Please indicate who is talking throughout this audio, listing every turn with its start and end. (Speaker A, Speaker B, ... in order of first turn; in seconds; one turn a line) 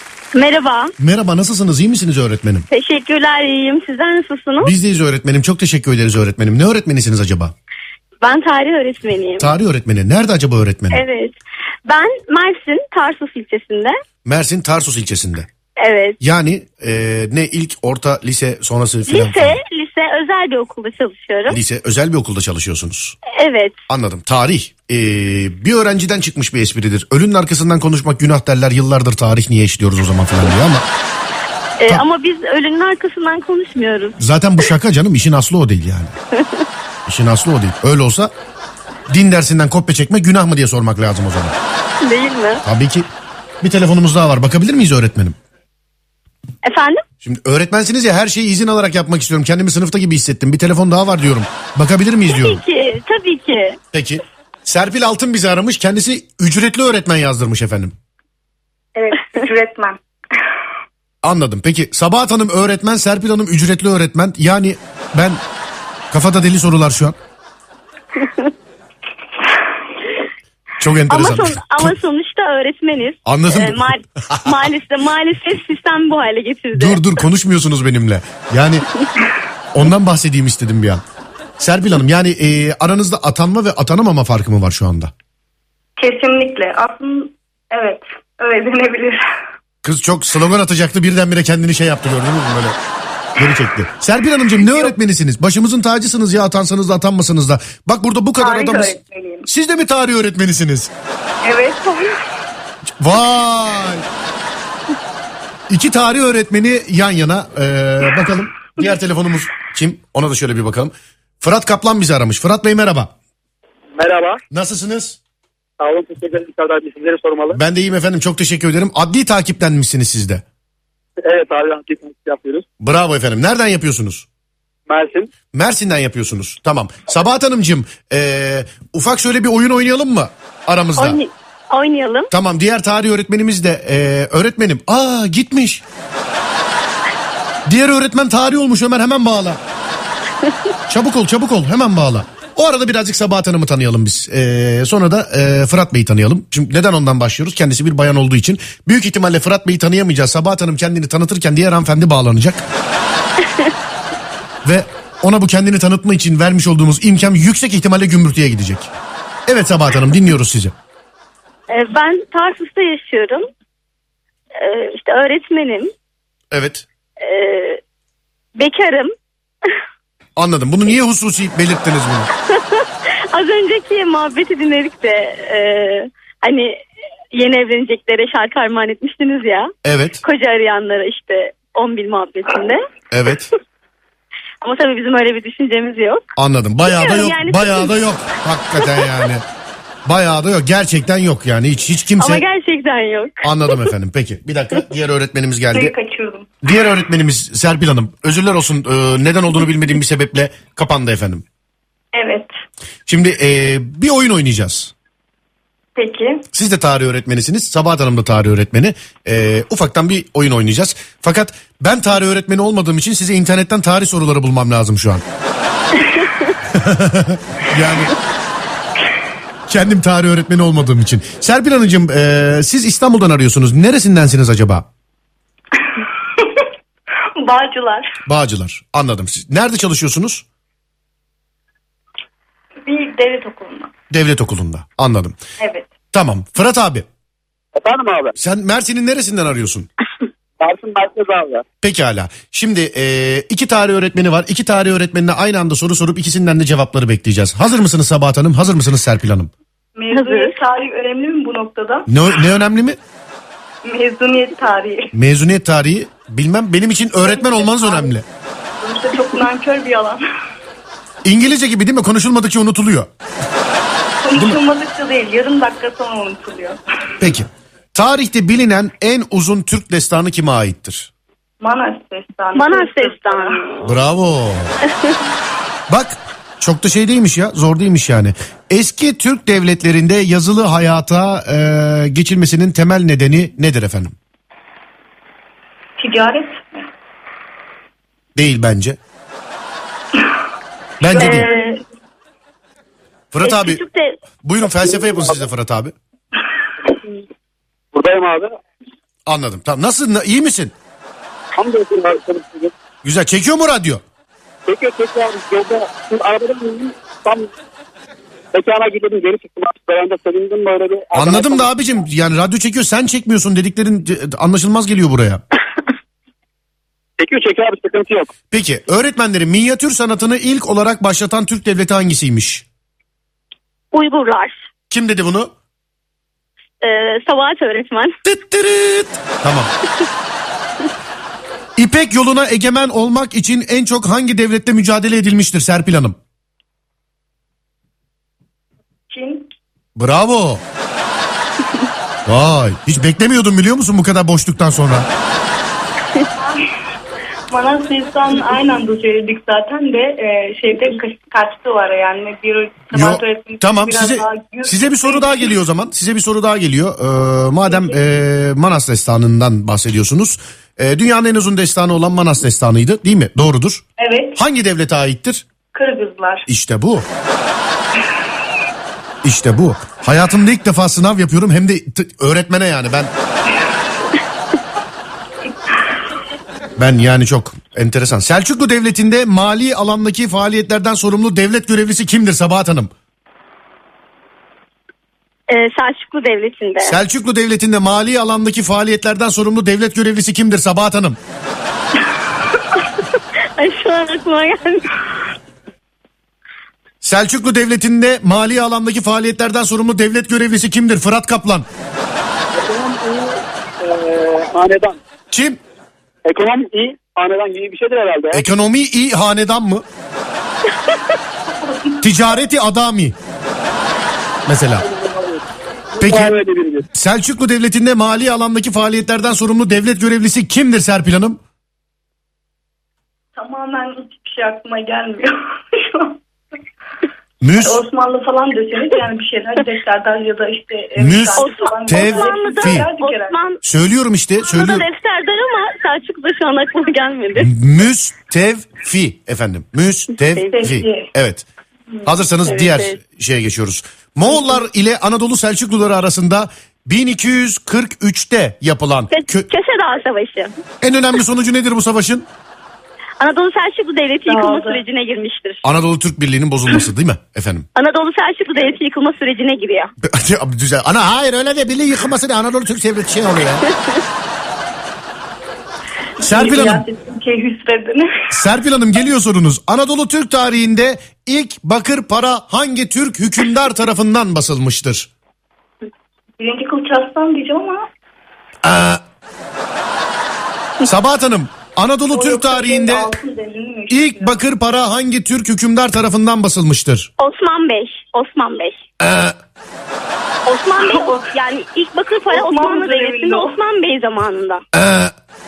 Speaker A: 0.3-0.9
Speaker B: 1.0-2.7
Speaker A: 2.7-4.7
Speaker B: 4.6-7.5
Speaker A: 8.2-9.5
Speaker B: 9.4-11.0
Speaker A: 10.9-14.0
Speaker B: 14.2-15.5
Speaker A: 15.8-16.2
Speaker B: 16.2-19.6
Speaker A: 19.1-21.6
Speaker B: 21.5-23.1
Speaker A: 23.2-23.7
Speaker B: 23.9-30.9
Speaker A: 31.8-34.2
Speaker B: 34.2-36.1
Speaker B: 37.0-38.3
Speaker B: 39.1-41.5
Speaker A: 42.0-42.6
Speaker B: 42.6-43.1
Speaker B: 43.6-45.4
Speaker A: 46.6-47.0
Speaker B: 47.2-52.6
Speaker A: 52.3-53.8
Speaker B: 53.9-57.9
Speaker C: 58.9-60.0
Speaker B: 61.2-65.4
Speaker B: 66.1-67.2
Speaker A: 68.2-68.5
Speaker B: 70.8-72.0
Speaker A: 71.1-77.2
Speaker B: 73.2-74.6
Speaker B: 76.7-78.8
Speaker B: 79.7-81.0
Speaker B: 81.6-85.1
Speaker C: 86.0-89.2
Speaker B: 89.8-92.8
Speaker B: 93.4-98.9
Speaker C: 98.4-99.5
Speaker B: 99.5-100.9
Speaker C: 101.4-102.2
Speaker B: 103.0-104.0
Speaker B: 105.7-113.1
Speaker D: 114.0-114.4
Speaker B: 114.5-115.2
Speaker D: 115.8-117.6
Speaker B: 117.5-120.4
Speaker D: 121.2-122.7
Speaker B: 122.8-124.2
Speaker D: 124.9-125.3
Speaker B: 125.5-131.2
Speaker A: 131.0-132.3
Speaker B: 132.3-135.8
Speaker B: 137.7-139.6
Speaker B: 140.9-152.6
Speaker B: 154.6-158.9
Speaker B: 159.5-160.7
Speaker A: 161.7-163.5
Speaker A: 164.5-165.9
Speaker B: 166.5-166.8
Speaker A: 167.2-167.8
Speaker A: 168.6-169.1
Speaker B: 170.4-172.3
Speaker A: 172.5-176.8
Speaker A: 177.3-182.8
Speaker B: 179.8-180.2
Speaker B: 183.1-183.5
Speaker A: 184.6-186.2
Speaker B: 186.3-189.4
Speaker A: 186.9-187.9
Speaker A: 188.8-189.1
Speaker B: 190.0-192.4
Speaker A: 192.2-193.9
Speaker B: 193.4-195.9
Speaker C: 195.7-196.5
Speaker B: 196.6-201.4
Speaker C: 202.1-202.5
Speaker B: 203.1-204.9
Speaker C: 205.9-206.4
Speaker B: 206.5-215.2
Speaker B: 216.7-218.1
Speaker B: 219.7-224.8
Speaker C: 225.8-226.7
Speaker C: 227.3-228.2
Speaker B: 228.2-230.4
Speaker C: 232.8-233.9
Speaker B: 234.1-235.4
Speaker C: 235.6-235.9
Speaker B: 236.1-237.1
Speaker D: 237.7-238.3
Speaker B: 238.3-239.9
Speaker D: 240.6-241.6
Speaker B: 241.8-249.5
Speaker C: 249.9-252.1
Speaker A: 250.1-250.5
Speaker B: 252.1-253.0
Speaker C: 253.8-255.1
Speaker B: 255.1-258.2
Speaker C: 257.2-258.1
Speaker C: 258.8-260.2
Speaker B: 261.2-263.1
Speaker C: 264.2-266.8
Speaker B: 267.2-271.1
Speaker C: 271.6-273.6
Speaker A: 272.5-273.9
Speaker B: 273.8-274.8
Speaker B: 275.9-284.1
Speaker C: 286.0-286.9
Speaker B: 288.4-289.0
Speaker B: 291.0-291.5
Speaker C: 291.1-291.8
Speaker A: 291.2-291.7
Speaker B: 293.3-293.8
Speaker A: 293.4-294.2
Speaker B: 294.4-295.9
Speaker D: 294.8-295.4
Speaker D: 297.9-298.6
Speaker B: 299.2-300.7
Speaker D: 301.6-302.7
Speaker B: 303.0-304.0
Speaker D: 304.7-307.5
Speaker D: 308.5-311.7
Speaker B: 311.1-315.4
Speaker D: 317.2-318.3
Speaker B: 318.5-322.6
Speaker A: 323.9-324.6
Speaker B: 324.9-325.5
Speaker A: 326.8-328.1
Speaker B: 328.2-329.7
Speaker B: 331.8-336.2
Speaker C: 339.1-339.5
Speaker B: 339.9-340.6
Speaker B: 342.2-345.1
Speaker C: 346.4-346.7
Speaker C: 347.5-355.5
Speaker B: 352.9-363.8
Speaker C: 357.6-358.0
Speaker C: 364.0-364.4
Speaker B: 364.4-365.4
Speaker C: 365.7-366.4
Speaker B: 366.5-367.1
Speaker B: 369.2-373.1
Speaker B: 376.8-382.9
Speaker A: 385.5-387.0
Speaker B: 386.8-391.2
Speaker A: 393.6-394.9
Speaker B: 397.0-401.6
Speaker D: 402.5-405.0
Speaker B: 405.3-405.6
Speaker D: 406.2-408.4
Speaker B: 408.3-409.8
Speaker C: 411.4-412.1
Speaker B: 412.0-413.1
Speaker B: 414.4-414.9
Speaker D: 414.8-415.4
Speaker D: 415.9-416.9
Speaker B: 416.0-416.3
Speaker B: 416.9-421.4
Speaker C: 423.3-426.2
Speaker B: 427.4-427.8
Speaker C: 427.6-433.4
Speaker B: 431.0-432.9
Speaker A: 431.4-433.6
Speaker B: 433.6-434.9
Speaker A: 434.4-437.5
Speaker B: 437.4-441.4
Speaker C: 440.5-441.1
Speaker B: 442.0-449.5
Speaker A: 442.4-443.0
Speaker C: 444.3-444.6
Speaker A: 449.1-450.5
Speaker B: 450.8-452.3
Speaker A: 453.2-455.6
Speaker C: 454.2-454.8
Speaker B: 455.6-457.7
Speaker A: 457.7-459.9
Speaker B: 460.0-463.7
Speaker A: 463.6-464.0
Speaker B: 466.2-466.9
Speaker C: 466.2-468.3
Speaker B: 468.3-475.1
Speaker C: 476.4-477.9
Speaker B: 478.6-479.0
Speaker B: 480.8-483.1
Speaker C: 482.1-484.4
Speaker B: 483.9-487.1
Speaker A: 487.2-488.8
Speaker B: 489.0-489.4
Speaker A: 490.4-494.6
Speaker C: 490.8-491.3
Speaker C: 492.3-493.5
Speaker B: 494.7-495.1